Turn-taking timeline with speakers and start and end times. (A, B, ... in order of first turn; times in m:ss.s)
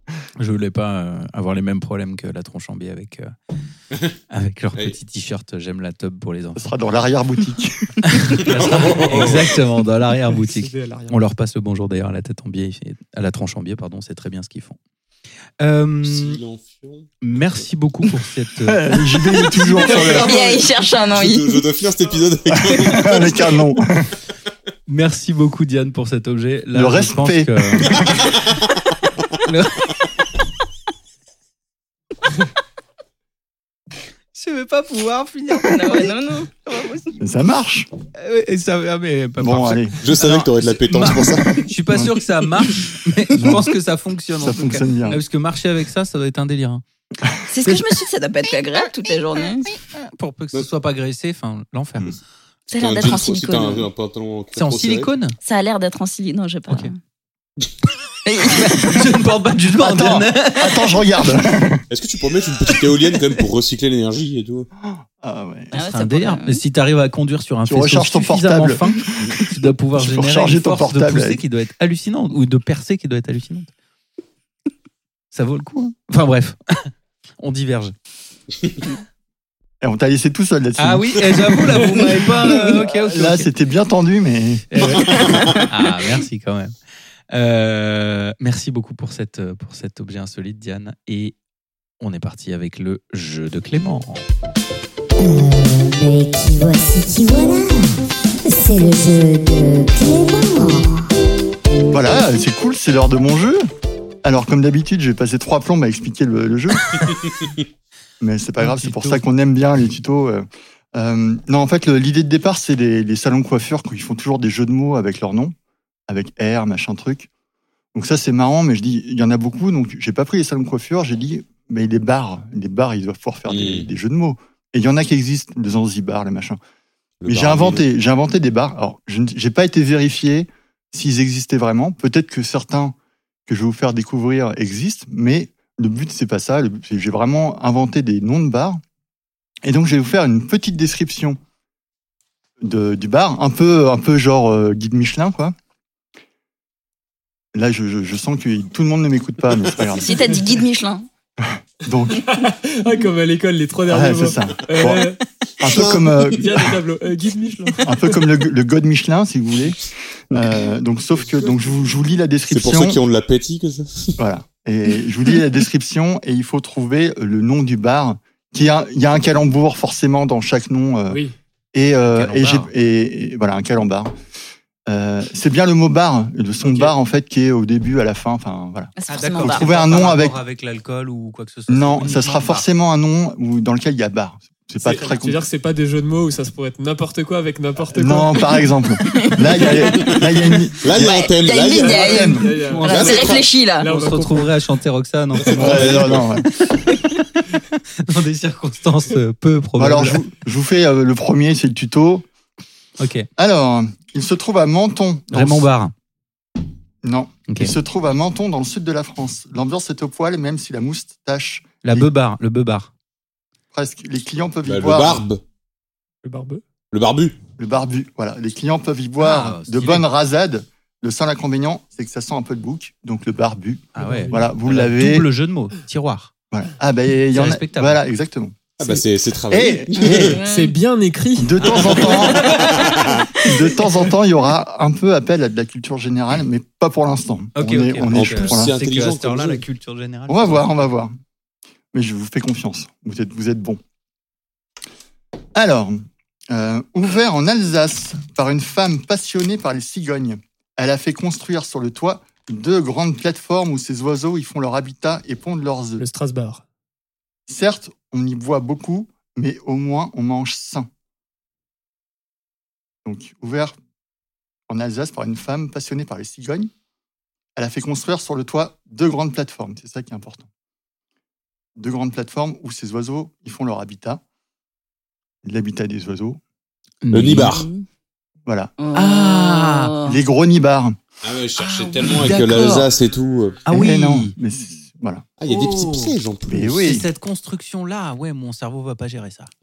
0:00.4-0:03.3 A
0:04.3-0:06.7 A
0:06.6-0:08.0 B
0:08.0-0:14.8 A
0:08.4-0:09.6 C
0:10.3-0:11.2 D
0:15.6-0:16.4 A
0:16.0-0:17.6 C
0:17.2-0:20.2 A
0:18.6-0:20.4 B
0:20.1-0:21.6 E
0:21.1-0:23.6 C
0:22.5-0:24.1 B
0:24.9-0:28.0 A
0:26.7-0:27.9 B
0:28.0-0:28.6 C
0:29.4-0:30.0 A
0:34.4-0:36.1 A
0:35.6-0:37.1 E
0:37.2-0:37.9 B
0:38.2-0:46.8 A
0:39.4-0:39.9 B
0:40.0-0:41.7 C
0:43.4-0:43.7 B
0:44.4-0:45.2 B
0:47.2-0:47.8 B
0:47.5-0:49.7 E
0:50.0-0:52.2 A
0:52.7-0:53.9 E
0:52.8-0:55.1 C
0:54.6-0:55.4 A
0:55.4-0:57.0 E
0:58.3-0:59.1 E
0:58.4-1:00.8 A
0:59.8-1:01.8 B
1:01.9-1:04.7 C
1:04.8-1:05.7 B
1:05.7-1:13.7 A
1:05.7-1:06.6 E
1:07.7-1:11.4 B
1:15.3-1:17.9 A
1:19.8-1:24.7 B
1:20.8-1:23.5 A
1:24.7-1:26.7 A
1:25.0-1:25.6 C
1:27.3-1:31.4 A
1:32.0-1:34.2 A
1:35.2-1:41.1 F
1:41.9-1:43.7 B
1:44.2-1:47.1 B
1:48.2-1:55.6 B
1:48.6-1:49.2 A
1:56.1-1:57.3 B
1:57.9-2:06.6 B
2:03.5-2:03.9 C
2:07.2-2:07.8 C
2:07.3-2:13.0 B
2:13.5-2:18.8 B
2:19.6-2:21.4 B
2:22.6-2:25.6 B
2:27.5-2:30.4 B
2:29.9-2:31.1 E
2:31.4-2:32.4 B
2:32.3-2:35.2 D
2:33.9-2:36.7 B
2:35.6-2:36.2 C
2:36.3-2:38.2 D
2:37.8-2:43.0 B
2:41.3-2:41.8 D
2:42.5-2:44.2 C
2:44.2-2:51.2 B
2:51.1-2:51.4 D
2:51.7-2:54.1 B
2:52.1-2:52.7 A
2:54.9-3:00.4 B
2:56.6-2:56.9 D
2:59.0-2:59.7 E
2:59.1-3:02.7 A
3:01.7-3:05.4 B
3:04.8-3:08.5 D
3:07.9-3:11.1 B
3:09.0-3:09.8 E
3:10.8-3:12.1 C
3:10.9-3:13.9 E
3:11.7-3:14.6 D
3:12.0-3:12.5 B
3:12.7-3:13.2 A
3:12.9-3:13.5 C
3:13.8-3:20.2 A
3:15.4-3:16.3 C
3:15.6-3:16.5 B
3:19.8-3:22.3 B
3:23.0-3:23.3 A
3:23.4-3:25.7 B
3:25.3-3:25.9 A
3:27.0-3:32.1 B
3:31.8-3:32.9 A
3:33.7-3:35.2 B
3:34.7-3:35.4 C
3:36.2-3:36.6 D
3:36.9-3:37.4 C
3:37.6-3:45.3 B
3:39.2-3:40.1 A
3:44.0-3:46.3 A
3:44.0-3:44.5 D
3:46.5-3:48.9 B
3:47.3-3:48.0 A
3:48.8-3:50.4 C
3:49.5-3:50.4 B
3:50.0-3:50.7 E
3:50.4-3:52.2 D
3:51.4-3:52.6 B
3:52.5-3:53.3 C
3:53.4-3:58.7 B
3:57.6-4:00.7 A
3:58.1-3:59.6 C
4:00.3-4:01.2 B
4:01.9-4:03.8 B
4:05.6-4:16.0 B
4:16.0-4:16.6 D
4:17.5-4:20.9 B
4:23.0-4:23.8 B
4:24.7-4:26.7 B
4:27.6-4:30.5 B
4:31.8-4:34.2 B
4:35.4-4:36.4 B
4:37.0-4:37.6 A
4:37.1-4:37.7 C
4:37.4-4:37.8 E
4:38.5-4:38.7 B
4:38.8-4:40.2 E
4:38.9-4:40.0 A
4:40.0-4:41.0 B
4:41.2-4:43.7 C
4:41.6-4:42.9 A
4:43.7-4:44.3 A
4:43.7-4:45.3 B
4:45.4-4:46.9 C
4:45.5-4:46.2 A
4:46.5-4:47.0 B
4:46.8-4:49.5 A